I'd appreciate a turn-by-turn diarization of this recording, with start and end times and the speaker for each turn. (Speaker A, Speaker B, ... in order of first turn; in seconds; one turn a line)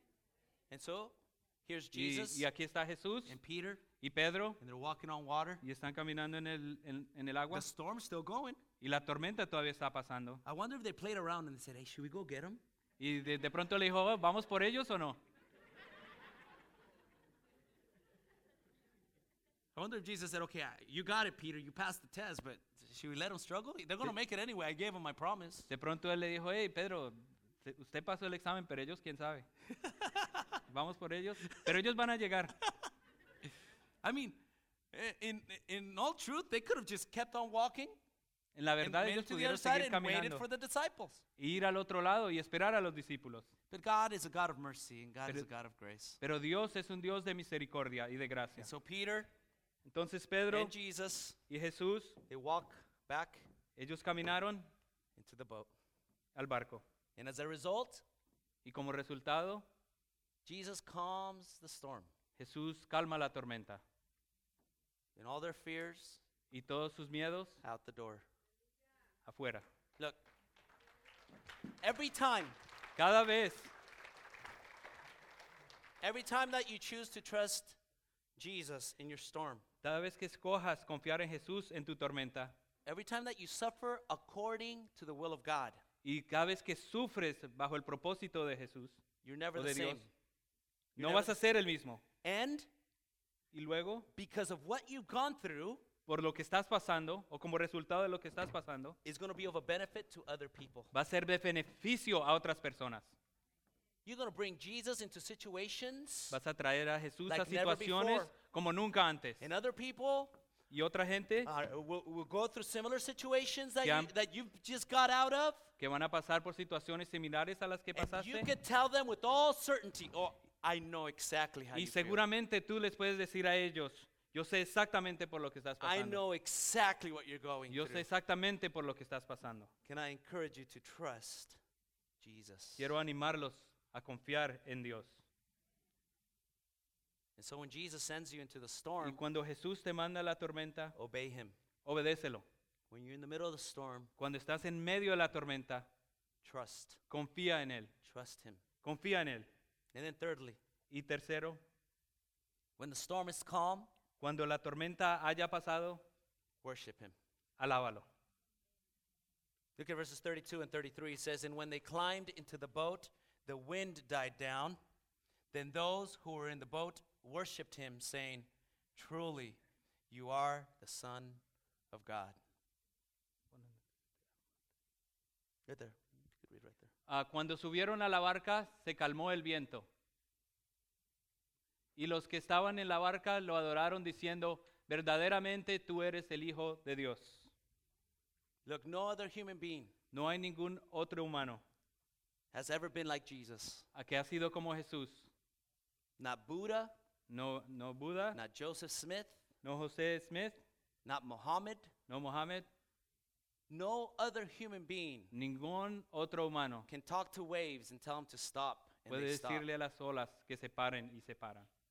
Speaker A: 0.7-2.5
Speaker B: 1.9-3.4
Speaker A: 3.3-3.9
Speaker B: 4.0-4.6
Speaker A: 4.6-5.6
Speaker B: 5.6-7.7
Speaker A: 7.5-8.6
Speaker B: 8.8-10.4
Speaker A: 10.4-12.6
Speaker B: 13.0-15.2
Speaker A: 19.8-25.7
Speaker B: 25.7-29.5
Speaker A: 29.9-30.5
Speaker B: 30.7-32.5
Speaker A: 34.0-34.4
Speaker A: 34.9-38.0
Speaker B: 38.5-40.5
Speaker A: 38.8-41.2
Speaker B: 41.4-43.5
Speaker A: 43.7-46.2
Speaker B: 46.2-48.7
Speaker A: 48.6-49.3
Speaker B: 49.9-50.7
Speaker A: 50.5-51.4
Speaker B: 51.5-52.2
Speaker A: 52.3-53.5
Speaker B: 53.8-54.7
Speaker A: 55.2-55.7
Speaker B: 56.4-56.8
Speaker A: 57.2-58.0
Speaker B: 58.6-59.7
Speaker A: 60.5-62.1
Speaker B: 62.4-63.8
Speaker A: 65.2-66.2
Speaker B: 66.5-67.6
Speaker A: 67.6-68.3
Speaker B: 69.2-69.7
Speaker A: 71.8-72.6
Speaker B: 73.0-73.7
Speaker A: 76.0-77.8
Speaker A: 78.4-79.6
Speaker B: 79.8-82.5
Speaker A: 82.9-85.8
Speaker B: 86.0-89.0
Speaker A: 89.2-90.1
Speaker B: 89.5-90.1
Speaker A: 91.0-91.4
Speaker B: 91.0-92.0
Speaker A: 92.2-92.7
Speaker B: 93.5-94.1
Speaker A: 94.2-95.8
Speaker B: 96.1-99.0
Speaker A: 99.0-100.9
Speaker B: 100.9-103.2
Speaker A: 104.0-106.4
Speaker B: 106.3-109.4
Speaker A: 107.3-108.3
Speaker A: 109.4-110.3
Speaker B: 110.7-111.5
Speaker A: 111.4-115.7
Speaker B: 113.8-114.1
Speaker B: 115.8-118.5
Speaker A: 118.0-122.2
Speaker B: 121.7-126.2
Speaker A: 125.8-128.1
Speaker B: 127.7-129.7
Speaker A: 129.9-131.6
Speaker A: 132.2-132.9
Speaker B: 132.8-135.2
Speaker A: 137.4-139.2
Speaker B: 139.0-140.9
Speaker A: 140.9-141.6
Speaker B: 141.8-142.4
Speaker A: 142.9-144.1
Speaker B: 144.2-145.9
Speaker A: 146.4-147.0
Speaker B: 147.1-147.9
Speaker A: 148.0-148.6
Speaker B: 148.8-149.5
Speaker A: 149.9-150.6
Speaker B: 150.9-151.6
Speaker A: 152.8-153.9
Speaker B: 154.2-156.0
Speaker A: 156.6-157.2
Speaker B: 157.6-158.1
Speaker A: 159.8-164.8
Speaker A: 165.5-169.6
Speaker A: 170.1-172.4
Speaker B: 173.5-173.8
Speaker A: 175.7-176.9
Speaker B: 177.1-179.9
Speaker B: 182.0-187.5
Speaker A: 188.7-189.9
Speaker B: 190.1-191.6
Speaker A: 192.5-193.9
Speaker B: 193.9-195.3
Speaker A: 196.2-196.9
Speaker B: 197.3-198.4
Speaker A: 198.3-199.4
Speaker B: 199.6-200.6
Speaker A: 201.1-201.9
Speaker B: 202.1-202.7
Speaker A: 203.7-205.3
Speaker B: 205.3-206.9
Speaker A: 206.9-209.7
Speaker B: 209.1-211.7